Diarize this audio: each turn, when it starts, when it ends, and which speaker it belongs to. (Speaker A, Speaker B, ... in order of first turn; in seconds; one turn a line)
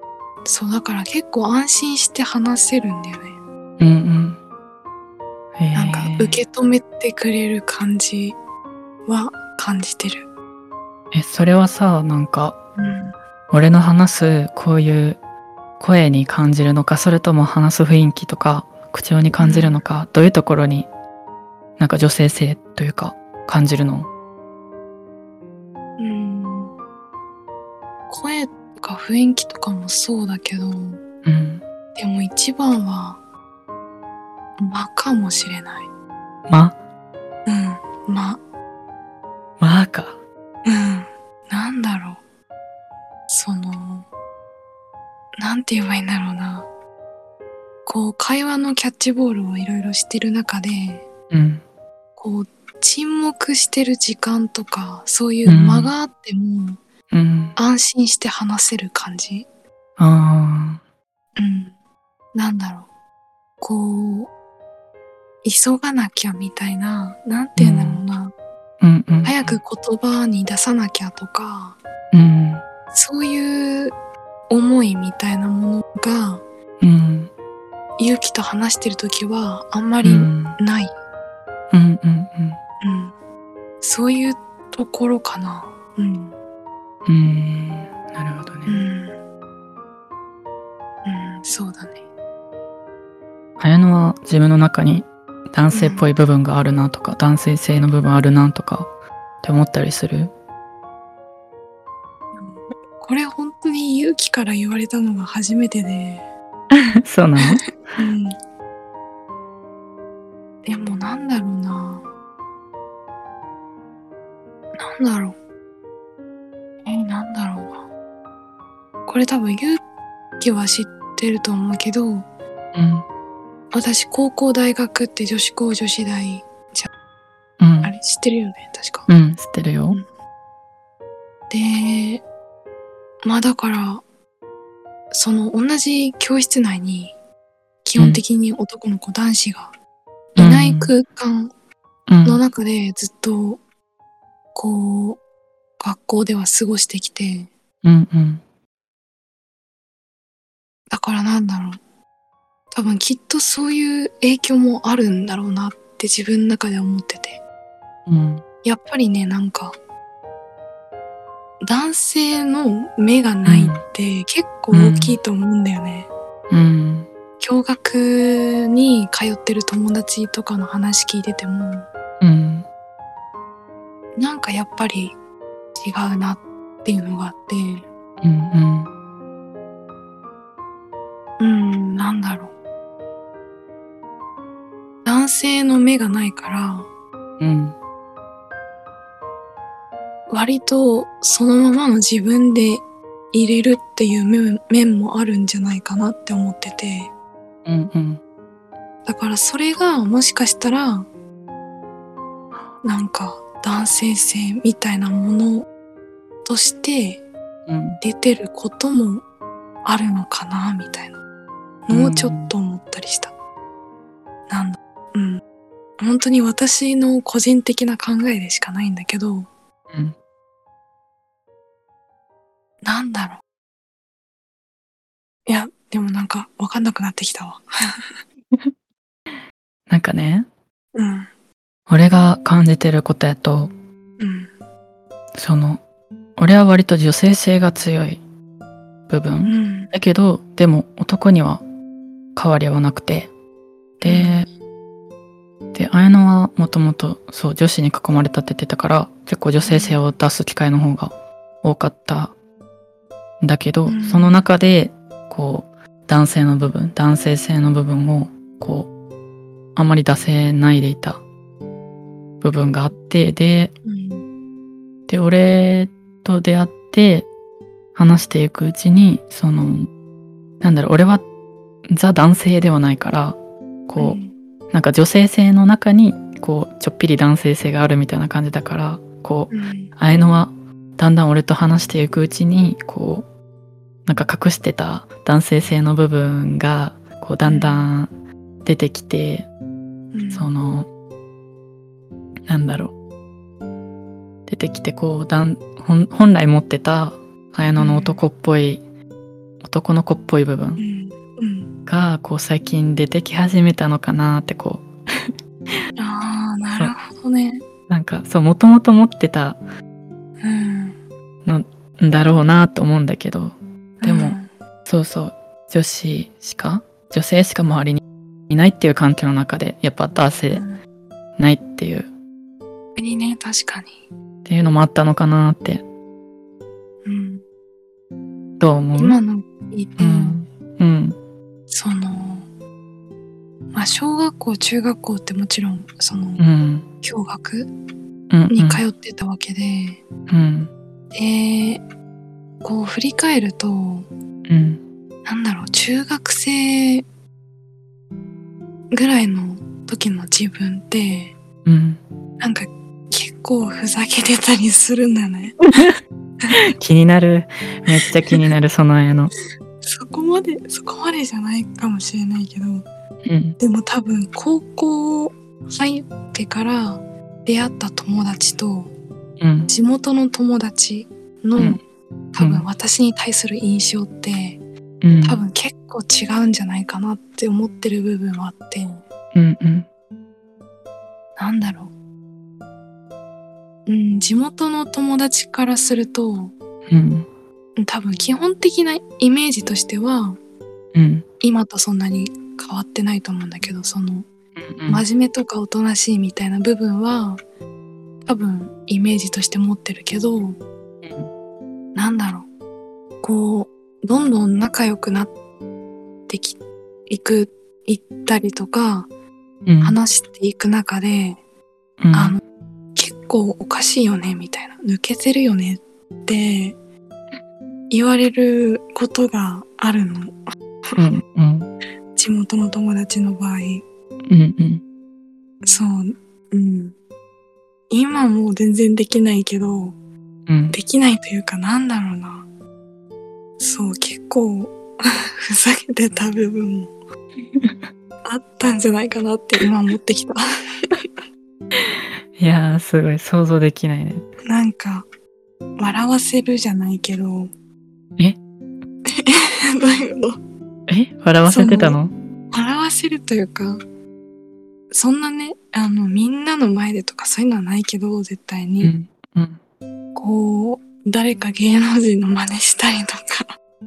Speaker A: 0.5-3.4
Speaker B: 3.8-4.4
Speaker B: 5.6-6.4
Speaker A: 5.7-8.4
Speaker A: 9.1-10.3
Speaker B: 11.1-12.6
Speaker A: 12.8-13.1
Speaker B: 13.5-15.2
Speaker B: 15.8-20.9
Speaker A: 19.4-19.8
Speaker B: 21.8-24.1
Speaker A: 26.0-26.7
Speaker A: 28.1-31.0
Speaker B: 31.2-31.6
Speaker A: 31.9-33.2
Speaker A: 34.6-35.9
Speaker B: 36.5-36.8
Speaker A: 37.5-38.4
Speaker B: 39.6-40.2
Speaker A: 40.6-42.2
Speaker A: 43.3-44.1
Speaker A: 45.4-46.7
Speaker A: 47.9-51.1
Speaker B: 51.3-51.6
Speaker A: 52.2-56.8
Speaker B: 55.5-55.9
Speaker B: 57.1-57.5
Speaker A: 57.5-59.5
Speaker B: 60.0-60.8
Speaker A: 61.4-61.7
Speaker A: 62.3-62.9
Speaker A: 63.6-64.3
Speaker A: 65.4-68.3
Speaker B: 67.6-68.0
Speaker B: 68.8-69.6
Speaker A: 69.2-71.8
Speaker B: 72.1-72.6
Speaker A: 72.9-73.9
Speaker A: 74.5-76.4
Speaker B: 76.8-77.3
Speaker A: 78.0-80.9
Speaker B: 80.0-80.6
Speaker B: 81.7-82.6
Speaker A: 82.8-83.1
Speaker A: 83.8-86.4
Speaker B: 87.0-88.8
Speaker A: 88.7-89.2
Speaker A: 91.0-92.0
Speaker B: 93.6-98.9
Speaker A: 95.7-96.1
Speaker B: 99.4-100.3
Speaker A: 102.3-106.3
Speaker B: 106.7-107.8
Speaker A: 107.9-108.3
Speaker A: 110.6-112.0
Speaker A: 114.8-115.4
Speaker A: 116.8-117.9
Speaker A: 119.1-119.8
Speaker A: 120.4-122.3
Speaker B: 122.7-123.0
Speaker A: 123.7-126.9
Speaker B: 127.6-127.9
Speaker A: 127.8-129.1
Speaker B: 129.1-130.0
Speaker A: 131.5-132.2
Speaker A: 133.2-134.0
Speaker A: 135.1-137.2
Speaker A: 137.8-139.7
Speaker A: 140.3-141.5
Speaker B: 140.3-140.9
Speaker B: 142.1-142.4
Speaker A: 142.2-143.6
Speaker A: 144.5-145.2
Speaker A: 145.8-147.5
Speaker B: 147.8-148.4
Speaker A: 150.9-151.8
Speaker A: 152.7-157.4
Speaker B: 158.1-158.4
Speaker A: 158.6-159.8
Speaker A: 161.6-166.1
Speaker B: 163.4-163.8
Speaker B: 164.7-165.2
Speaker B: 166.5-167.1
Speaker A: 167.4-171.9
Speaker B: 172.2-172.7
Speaker A: 174.2-175.2
Speaker A: 175.7-177.9
Speaker B: 178.2-178.9
Speaker A: 181.4-182.5
Speaker A: 185.0-186.9
Speaker B: 187.4-187.8
Speaker A: 190.3-197.1
Speaker B: 197.6-198.2
Speaker A: 199.1-201.1
Speaker A: 202.8-205.7
Speaker A: 206.4-207.2
Speaker B: 207.7-208.0
Speaker A: 208.0-209.2
Speaker A: 209.8-211.2
Speaker A: 211.8-213.3
Speaker B: 211.9-212.5
Speaker A: 214.5-215.4
Speaker A: 216.0-219.5
Speaker B: 219.9-220.2
Speaker A: 222.8-223.4
Speaker A: 225.5-228.1
Speaker B: 229.9-230.5
Speaker A: 230.9-231.3
Speaker B: 231.9-233.7
Speaker A: 234.2-234.5
Speaker B: 235.3-235.8
Speaker B: 236.4-238.2
Speaker B: 239.1-241.6
Speaker A: 239.4-239.9
Speaker B: 242.3-243.3
Speaker A: 244.0-244.5
Speaker B: 244.0-244.5
Speaker B: 245.7-252.3
Speaker A: 249.6-250.0
Speaker B: 253.4-258.9
Speaker A: 253.8-254.4
Speaker B: 259.8-261.2
Speaker B: 262.4-263.7
Speaker A: 263.8-264.2
Speaker B: 265.1-267.3
Speaker B: 267.9-269.9
Speaker B: 270.6-271.2
Speaker B: 271.9-274.2
Speaker A: 274.0-274.3
Speaker B: 274.7-283.3
Speaker A: 279.5-279.9
Speaker B: 284.1-288.1
Speaker A: 287.4-287.9
Speaker B: 288.6-289.5
Speaker A: 290.1-290.5
Speaker B: 290.3-290.9
Speaker B: 292.5-292.9
Speaker B: 294.5-298.8
Speaker A: 297.8-298.2
Speaker B: 299.6-300.8
Speaker A: 300.8-301.7
Speaker B: 301.9-305.3
Speaker A: 306.0-307.6
Speaker B: 307.9-309.6
Speaker A: 310.4-311.0
Speaker B: 311.4-320.6
Speaker A: 314.0-314.5
Speaker A: 320.5-320.8
Speaker B: 321.4-322.1
Speaker A: 322.9-324.1
Speaker B: 324.4-325.8
Speaker A: 327.0-327.4
Speaker B: 328.6-329.2
Speaker A: 328.9-330.4
Speaker B: 330.0-331.2
Speaker A: 331.7-332.5
Speaker A: 333.7-336.4
Speaker B: 336.4-336.9
Speaker A: 337.0-337.7
Speaker B: 338.3-338.8
Speaker A: 338.5-340.0
Speaker B: 340.3-340.7
Speaker A: 341.1-341.8
Speaker A: 342.6-344.1
Speaker B: 344.5-344.8
Speaker A: 345.2-347.0
Speaker A: 348.9-351.4
Speaker B: 351.6-352.0
Speaker A: 352.4-355.6
Speaker B: 356.7-359.3
Speaker A: 357.9-358.4
Speaker A: 359.8-362.9
Speaker B: 363.2-363.6
Speaker A: 363.6-368.9
Speaker B: 369.4-369.7
Speaker A: 369.7-371.8
Speaker A: 372.3-374.6
Speaker B: 372.4-372.6
Speaker B: 375.0-375.4
Speaker A: 375.2-379.0
Speaker B: 379.3-379.9
Speaker A: 381.4-381.9
Speaker A: 383.9-386.6
Speaker B: 386.9-387.3
Speaker A: 387.8-390.4
Speaker B: 390.9-391.2
Speaker A: 391.4-394.3
Speaker B: 394.6-395.0
Speaker A: 394.9-397.4
Speaker A: 398.2-400.6
Speaker B: 401.0-401.3
Speaker A: 401.9-402.5
Speaker A: 403.2-405.3
Speaker A: 406.3-409.1
Speaker B: 409.6-410.0
Speaker A: 409.8-411.4
Speaker B: 412.0-412.4
Speaker A: 412.1-412.4
Speaker A: 412.9-416.8
Speaker A: 417.9-420.4
Speaker B: 421.0-421.7
Speaker A: 422.1-423.8
Speaker B: 424.3-424.8
Speaker A: 425.6-427.0
Speaker A: 427.9-430.0
Speaker B: 430.5-430.8
Speaker A: 430.7-432.4
Speaker A: 433.6-436.9
Speaker B: 437.6-437.8
Speaker A: 438.2-441.1
Speaker B: 441.8-444.2
Speaker A: 444.4-445.1
Speaker A: 445.8-447.5
Speaker A: 449.1-450.4
Speaker B: 450.9-452.1
Speaker A: 451.4-452.0
Speaker A: 452.5-453.8
Speaker A: 454.9-458.9
Speaker B: 458.8-459.6
Speaker A: 460.1-463.5